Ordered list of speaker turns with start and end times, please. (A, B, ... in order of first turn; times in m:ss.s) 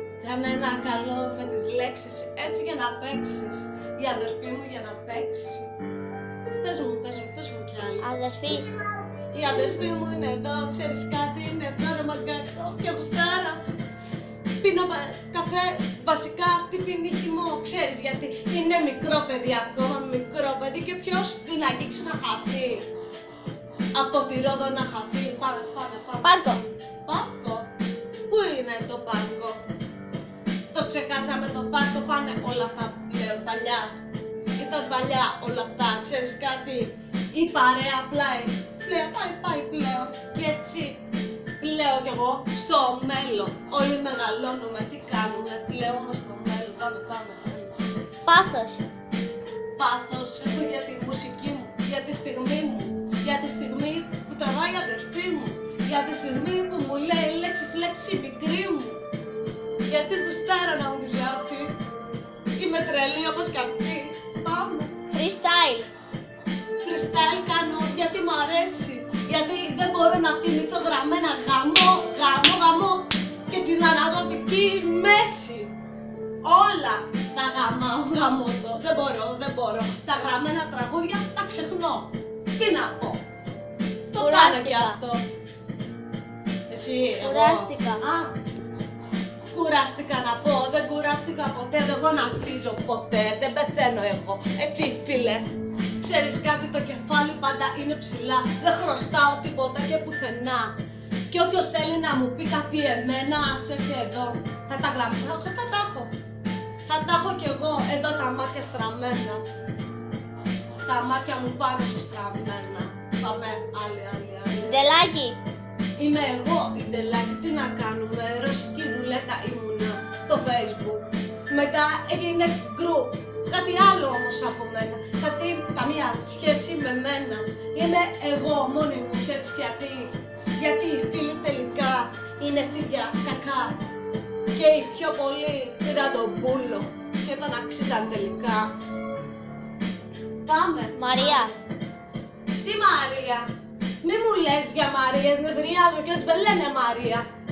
0:00.2-0:05.7 A
0:06.6-0:08.1 A
0:08.0-0:08.7 B
0:09.3-0:13.6 A
0:14.6-0:22.8 A
0:24.0-0:27.7 A
0:26.2-0:26.6 B
0:28.3-0:29.6 A
0:30.7-0:33.9 A
0:34.6-0:41.0 A
0:41.6-0:47.8 A
0:48.3-0:48.9 B
0:49.8-0:59.0 A
0:59.9-1:01.8 A
1:02.6-1:05.0 A
1:05.1-1:05.9 B
1:06.8-1:15.7 A
1:16.4-1:23.2 A
1:24.1-1:25.2 A
1:24.2-1:25.0 B
1:26.7-1:28.3 A
1:27.2-1:28.0 B
1:29.5-1:35.5 A
1:36.0-1:40.8 A
1:41.3-1:46.1 A
1:46.9-1:49.4 A
1:50.9-1:54.9 A
1:54.6-1:55.4 B
1:56.0-2:13.8 A
2:14.6-2:18.7 A
2:20.4-2:21.6 A
2:20.9-2:21.5 B
2:22.6-2:23.5 A
2:24.0-2:27.2 A